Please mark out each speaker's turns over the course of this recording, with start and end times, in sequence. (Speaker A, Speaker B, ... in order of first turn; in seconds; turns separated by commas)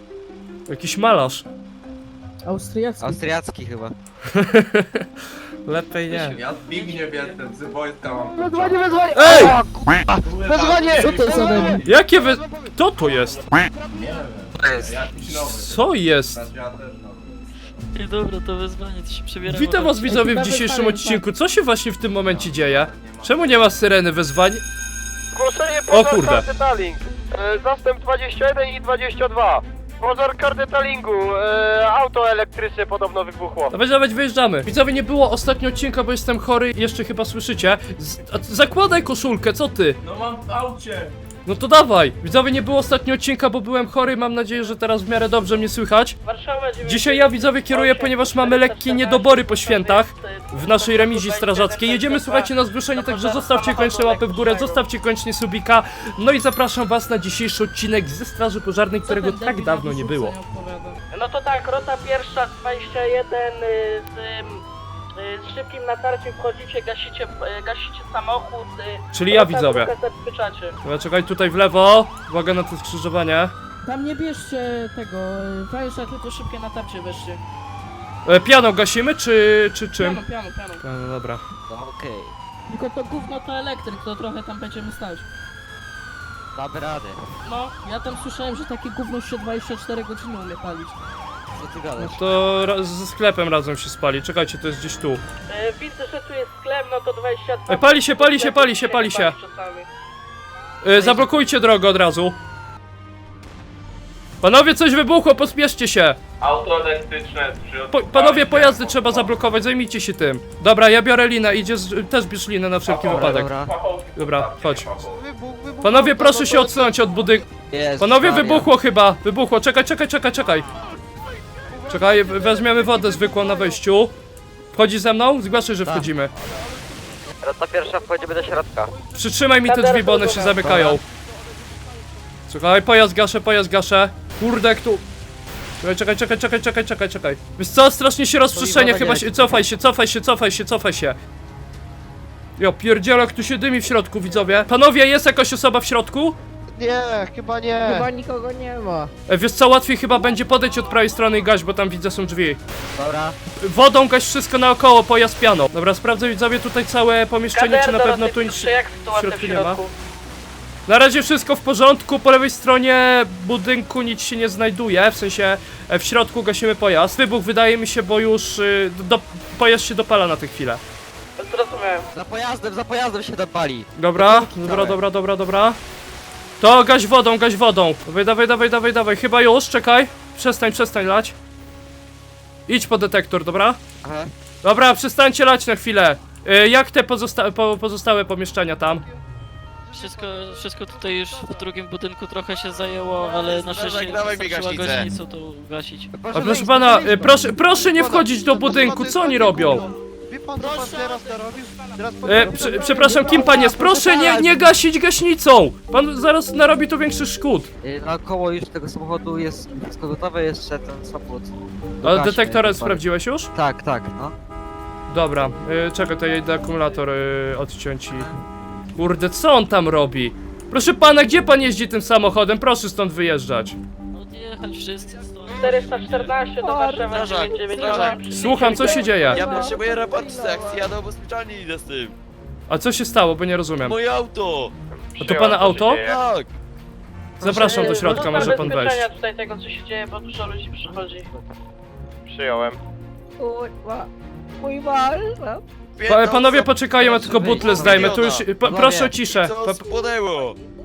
Speaker A: 0.7-1.4, Speaker B: 2.5-3.2, Speaker C: 3.0-4.0, Speaker A: 4.3-5.1, Speaker A: 5.7-6.4, Speaker D: 6.1-9.5, Speaker E: 6.7-7.4, Speaker E: 8.3-9.7, Speaker F: 9.2-11.0, Speaker A: 9.2-9.5, Speaker D: 10.2-12.1, Speaker E: 10.7-12.7, Speaker B: 10.9-11.8, Speaker A: 11.8-13.4, Speaker D: 12.9-17.5, Speaker E: 13.7-14.3, Speaker C: 14.6-15.1, Speaker A: 15.5-16.5, Speaker G: 17.9-20.2, Speaker A: 19.4-24.6, Speaker B: 20.1-21.2, Speaker D: 22.2-23.9, Speaker F: 25.3-33.7, Speaker A: 25.9-26.5, Speaker A: 33.7-40.0, Speaker D: 40.0-41.1, Speaker A: 41.5-46.2, Speaker B: 46.2-54.8, Speaker A: 46.8-60.4, Speaker B: 59.1-64.6, Speaker B: 65.2-70.8, Speaker A: 69.1-69.9, Speaker A: 70.8-73.5, Speaker B: 73.8-77.4, Speaker A: 78.3-80.2, Speaker B: 80.0-80.8, Speaker A: 80.8-81.4, Speaker C: 81.7-82.3, Speaker B: 82.7-85.3, Speaker C: 86.5-87.2, Speaker B: 87.5-91.0, Speaker C: 91.6-92.2, Speaker A: 92.0-95.2, Speaker B: 95.5-99.9, Speaker A: 97.7-99.4, Speaker A: 100.8-102.4, Speaker C: 100.9-101.3, Speaker A: 104.4-106.2, Speaker D: 106.4-109.4, Speaker A: 107.9-113.5, Speaker D: 112.8-115.2, Speaker C: 113.0-113.7, Speaker A: 114.2-114.9, Speaker F: 115.1-117.0, Speaker A: 115.8-117.5, Speaker C: 117.7-118.7, Speaker A: 118.0-120.7, Speaker F: 121.7-122.6, Speaker A: 121.9-124.1, Speaker B: 122.8-123.6, Speaker A: 124.7-126.3, Speaker C: 127.3-128.9, Speaker A: 129.2-131.0, Speaker B: 129.6-130.7, Speaker C: 130.6-131.0, Speaker A: 132.5-135.0, Speaker A: 135.8-141.2, Speaker C: 138.5-139.6, Speaker A: 142.6-146.4, Speaker F: 146.7-148.1, Speaker E: 147.8-149.1, Speaker A: 149.3-152.6, Speaker C: 152.9-153.4, Speaker A: 153.6-159.8, Speaker B: 157.5-159.9, Speaker A: 160.9-170.8, Speaker B: 171.4-172.1, Speaker C: 172.1-175.0, Speaker A: 174.0-175.8, Speaker A: 176.6-181.3, Speaker A: 182.7-183.8, Speaker C: 184.0-184.3, Speaker A: 184.6-189.0, Speaker F: 189.9-191.6, Speaker G: 189.9-196.1, Speaker H: 193.3-195.1, Speaker C: 196.1-197.7, Speaker A: 196.3-199.8, Speaker F: 197.7-203.5, Speaker B: 199.3-199.9, Speaker B: 200.6-203.7, Speaker A: 202.2-207.7, Speaker C: 203.2-204.6, Speaker C: 207.8-214.3, Speaker A: 212.0-213.5, Speaker A: 215.1-218.3, Speaker A: 219.0-223.8, Speaker G: 224.1-226.3, Speaker B: 225.6-229.4, Speaker E: 226.6-228.2, Speaker G: 227.1-229.1, Speaker H: 227.1-228.7, Speaker A: 228.3-229.5, Speaker E: 228.9-230.9, Speaker H: 229.2-232.2, Speaker A: 232.7-234.0, Speaker H: 233.8-234.7, Speaker F: 235.2-236.2, Speaker A: 235.2-236.0, Speaker H: 235.9-236.5, Speaker A: 237.4-239.1, Speaker B: 237.4-241.3, Speaker F: 237.6-238.1, Speaker C: 240.8-241.5, Speaker F: 242.3-242.8, Speaker E: 243.4-244.1, Speaker E: 244.6-245.6, Speaker H: 246.0-248.5, Speaker A: 246.1-249.9, Speaker C: 247.0-249.2, Speaker H: 249.3-250.6